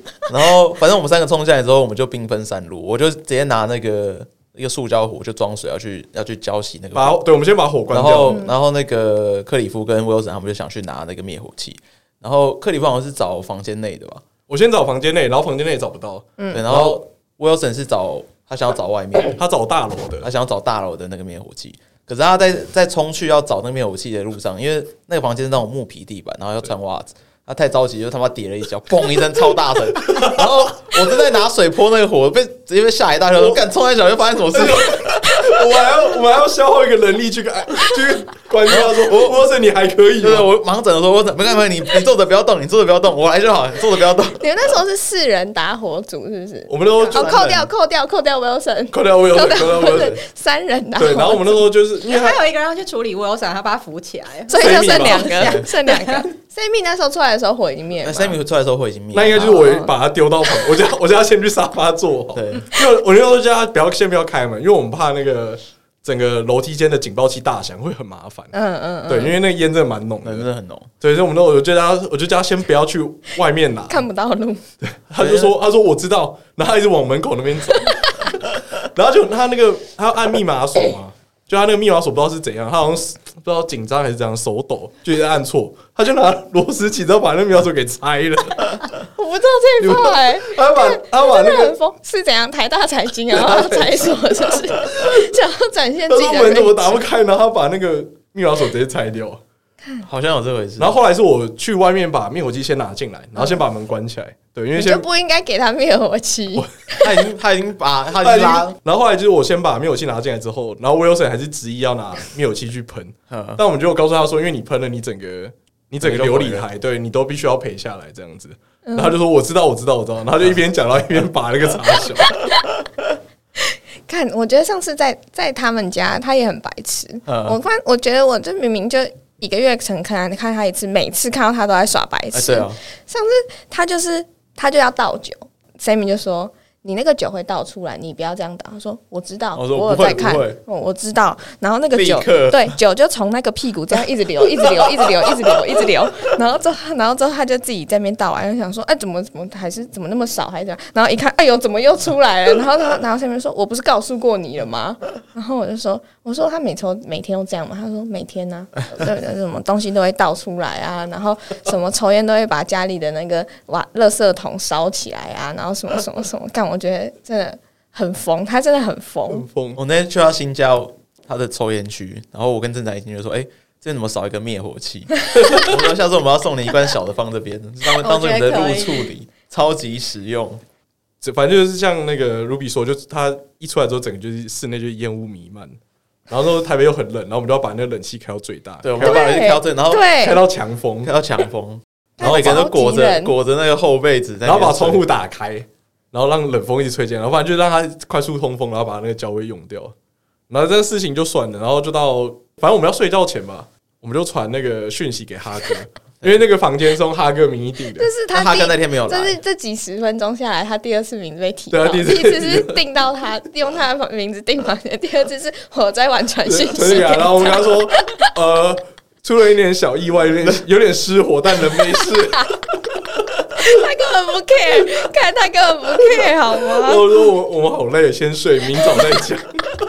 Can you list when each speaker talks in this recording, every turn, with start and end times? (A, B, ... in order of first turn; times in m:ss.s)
0:00.3-0:07.2 A
0:06.9-0:08.4 B
0:07.9-0:14.2 A
0:08.3-0:08.5 C
0:14.5-0:17.0 B
0:16.4-0:16.6 C
0:16.5-0:19.4 A
0:19.4-0:20.3 B
0:20.2-0:35.4 A
0:30.1-0:30.5 B
0:34.5-0:40.5 B
0:38.7-0:39.4 A
0:40.2-0:44.4 A
0:44.4-0:51.7 C
0:46.7-0:47.5 B
0:47.1-0:47.6 A
0:48.9-0:50.1 B
0:49.8-0:50.2 A
0:51.0-0:52.4 B
0:52.0-0:56.3 D
0:54.5-0:58.4 C
0:54.6-0:55.5 B
0:55.4-0:55.7 A
0:58.0-0:59.6 A
0:59.1-1:08.5 B
0:59.4-0:59.9 C
1:02.3-1:02.7 A
1:08.5-1:09.4 C
1:09.1-1:10.5 B
1:10.2-1:10.9 A
1:11.0-1:14.1 B
1:13.9-1:14.6 C
1:14.8-1:18.2 B
1:15.2-1:15.5 A
1:18.8-1:28.9 B
1:29.2-1:37.0 C
1:29.8-1:31.8 B
1:33.3-1:34.2 B
1:34.7-1:35.2 B
1:36.1-1:39.4 B
1:40.0-1:41.0 A
1:40.8-1:45.0 B
1:43.4-1:43.6 C
1:44.8-1:47.1 C
1:47.0-1:48.8 A
1:48.2-2:02.4 B
1:53.3-1:53.6 A
1:56.0-1:56.7 A
1:58.9-1:59.2 C
2:04.1-2:49.4 C
2:07.3-2:07.6 A
2:12.3-2:12.8 A
2:19.6-2:20.6 A
2:22.0-2:22.7 A
2:24.8-2:25.3 A
2:49.3-2:49.8 B
2:49.8-3:00.6 A
2:55.4-2:55.7 B
2:58.0-2:59.1 D
3:01.2-3:05.8 B
3:06.3-3:09.3 B
3:08.8-3:10.1 A
3:09.0-3:10.4 C
3:10.2-3:11.1 B
3:11.0-3:15.0 A
3:12.2-3:13.3 C
3:12.2-3:12.6 B
3:14.4-3:19.9 B
3:20.5-3:28.1 B
3:28.0-3:38.3 C
3:28.3-3:29.4 A
3:31.7-3:32.8 B
3:36.4-3:42.5 B
3:43.6-3:47.1 C
3:46.7-3:49.6 B